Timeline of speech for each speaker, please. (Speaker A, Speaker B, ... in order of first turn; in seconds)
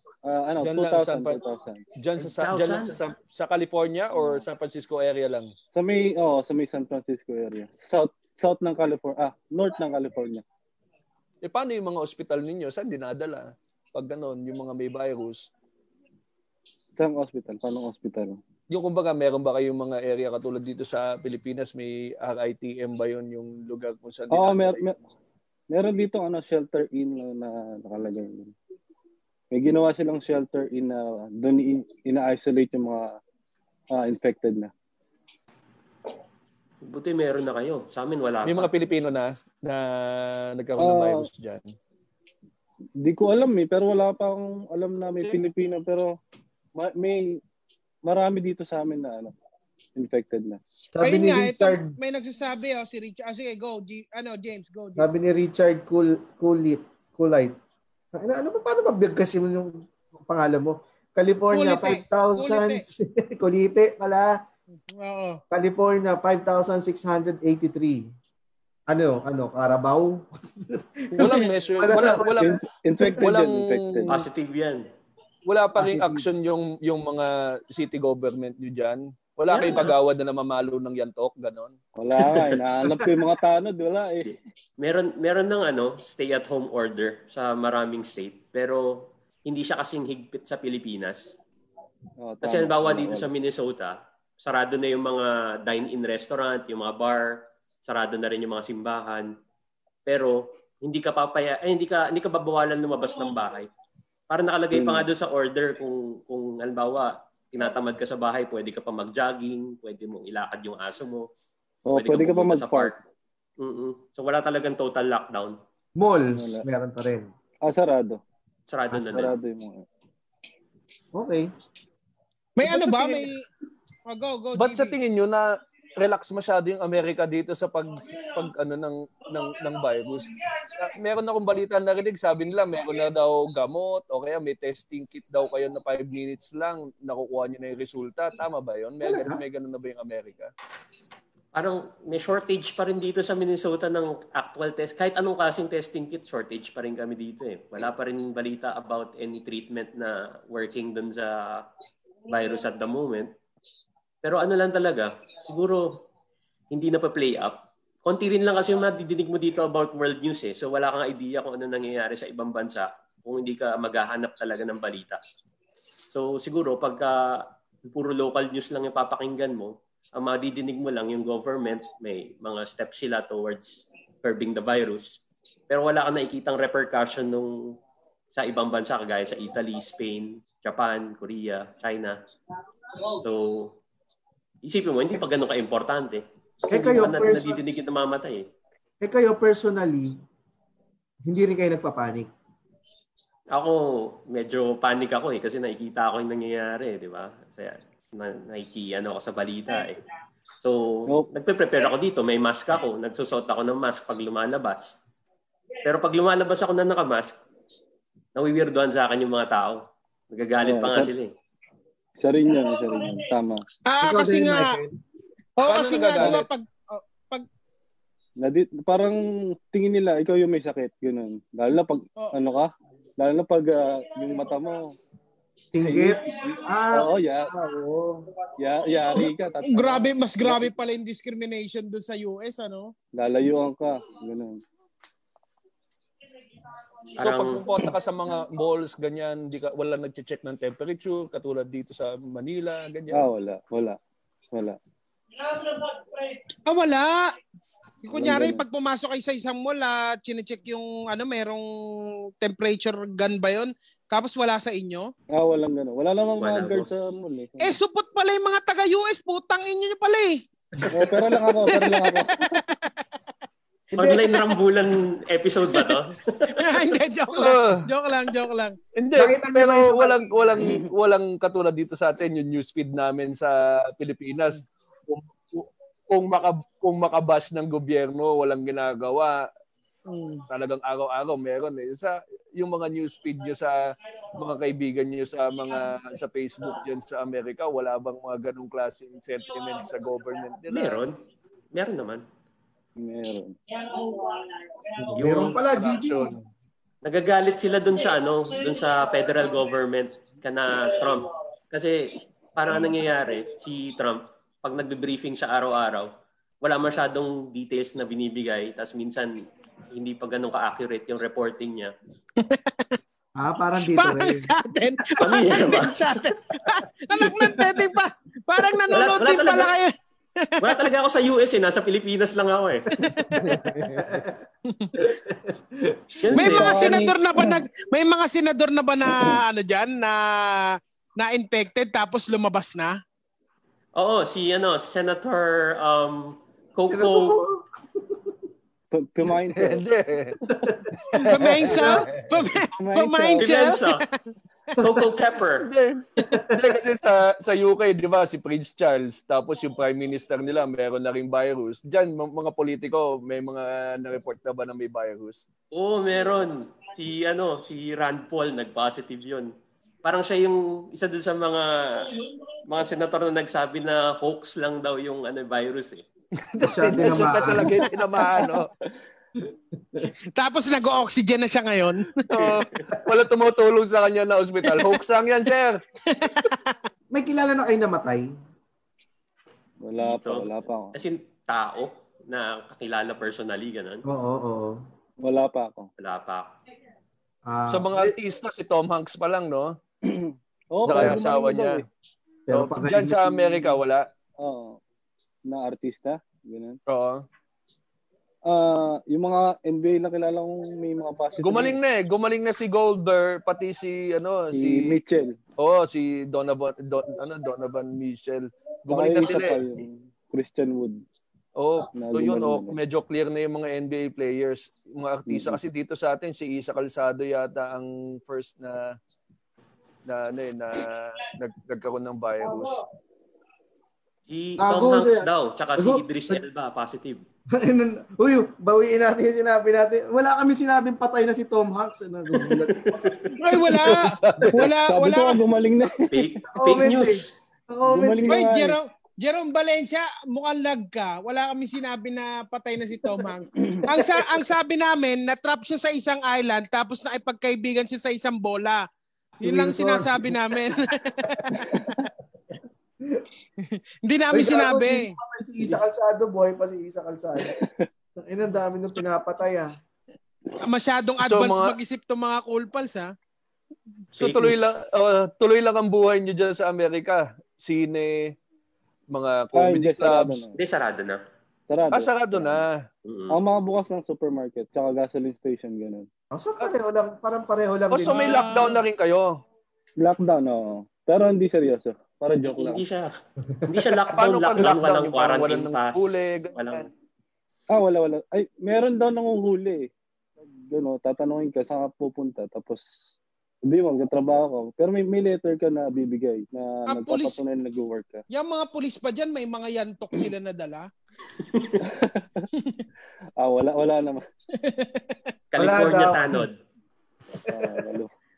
Speaker A: 0.2-1.8, 4.1-4.4, 5.7-10.4, 17.0-18.4, 24.3-25.0, 25.7-28.5, 29.5-33.2, 33.9-34.7, 40.8-41.3, 43.0-46.1, 46.8-47.4, 48.0-49.3, 50.0-50.6, 71.9-74.2, 82.0-84.3, 92.2-93.3, 104.7-105.0, 111.9-113.0, 116.3-116.6, 117.6-118.2, 119.0-119.8, 210.6-211.1, 212.2-213.6, 218.4-224.9, 225.8-227.5, 228.6-230.7, 233.2-234.6, 243.1-244.0, 244.5-244.8, 248.1-248.6, 255.3-257.8, 260.9-262.4, 293.0-293.6, 326.3-327.6, 338.9-339.8, 342.8-343.7, 379.8-380.9, 385.2-385.9, 390.0-391.9, 394.4-394.8, 395.5-396.8, 398.4-401.8, 404.5-405.4, 408.9-411.0, 411.9-412.8, 415.3-415.6, 434.6-436.3, 437.9-438.8, 443.6-444.1, 451.6-451.9, 457.4-457.9, 469.5-470.6, 471.7-472.6, 473.3-476.1, 480.0-482.8, 487.7-489.9, 490.7-498.2, 501.8-502.5, 503.4-504.2, 507.5-508.1
Speaker B: 0.6-1.4, 1.9-5.5, 11.4-15.5, 18.7-24.9, 38.4-41.7, 71.2-74.2, 75.5-81.8, 122.6-123.2, 124.5-140.5, 215.6-216.5, 237.1-243.3, 267.4-267.8, 268.9-279.4, 280.5-283.8, 284.3-291.0, 295.1-296.4, 323.3-324.2, 339.3-340.4, 341.0-342.3, 345.6-355.4, 366.4-368.7, 372.3-375.8, 387.7-389.8, 390.8-391.8, 392.5-394.0, 396.9-397.2, 401.4-404.9, 405.6-409.6, 411.6-419.0, 420.1-422.8, 433.7-434.7, 461.2-461.8, 464.1-468.3, 469.1-470.4, 471.9-472.8, 477.9-479.4, 484.1-486.9
Speaker C: 2.2-3.0, 36.9-38.7, 74.1-74.8, 79.5-79.9, 84.2-91.3, 92.4-99.3, 100.0-103.7, 104.3-111.3, 111.9-112.9, 113.6-115.6, 118.7-119.3, 141.5-151.6, 152.3-153.3, 154.2-156.0, 156.7-165.2, 166.1-177.6, 178.3-182.2, 183.1-183.7, 184.6-188.4, 193.5-200.0, 200.6-204.9, 205.8-207.3, 208.3-209.8, 210.3-211.3, 237.2-237.6, 256.4-256.9, 264.0-266.9, 290.7-291.1, 291.7-292.2, 295.2-295.6, 297.0-306.1, 306.6-309.3, 309.9-311.9, 315.2-316.1, 318.9-319.7, 320.6-322.9, 326.2-327.0, 333.9-337.4, 343.4-344.0, 344.8-345.7, 355.7-359.5, 360.0-362.1, 362.7-366.0, 380.0-384.1, 386.0-386.5, 424.3-427.2, 432.7-433.3, 436.1-437.3, 464.1-464.7, 470.5-471.2, 473.0-473.4, 482.4-483.1, 483.6-486.9, 501.4-501.8, 505.5-506.5
Speaker D: 50.9-51.9, 55.0-57.5, 58.1-64.4, 65.5-68.1, 68.9-72.5, 75.8-76.2, 116.0-117.3, 121.1-121.5, 139.0-139.4, 186.7-187.6, 189.0-190.2, 191.2-192.3, 214.0-214.9, 225.7-228.3, 269.1-270.5, 295.0-296.3, 313.4-314.5, 323.3-324.4, 325.0-326.2, 336.9-338.2, 340.5-341.9, 346.2-346.5, 366.6-367.9, 369.4-370.1, 377.1-378.3, 384.1-384.8, 387.4-388.1, 390.9-391.2, 392.5-393.5, 424.6-426.4, 427.5-434.5, 436.5-438.5, 449.4-450.6, 454.3-457.5, 458.2-459.7, 476.3-478.5, 505.6-506.4, 507.4-507.8
Speaker E: 51.0-55.1, 61.5-62.8, 64.9-65.4, 122.6-123.5, 124.1-125.0, 213.8-214.8, 215.6-217.4, 229.2-232.9, 246.7-247.3, 248.0-255.1, 257.6-260.4, 261.7-262.9, 266.5-268.8, 280.1-280.4, 312.4-313.0, 313.8-320.8, 323.0-323.3, 324.7-325.0, 326.3-333.0, 341.2-344.2, 370.3-372.5, 376.1-376.7, 433.4-435.4, 438.3-448.8, 449.4-451.6, 453.6-455.1, 460.6-463.1, 478.1-478.8, 496.9-497.4, 498.3-500.9, 502.5-502.8, 504.6-505.2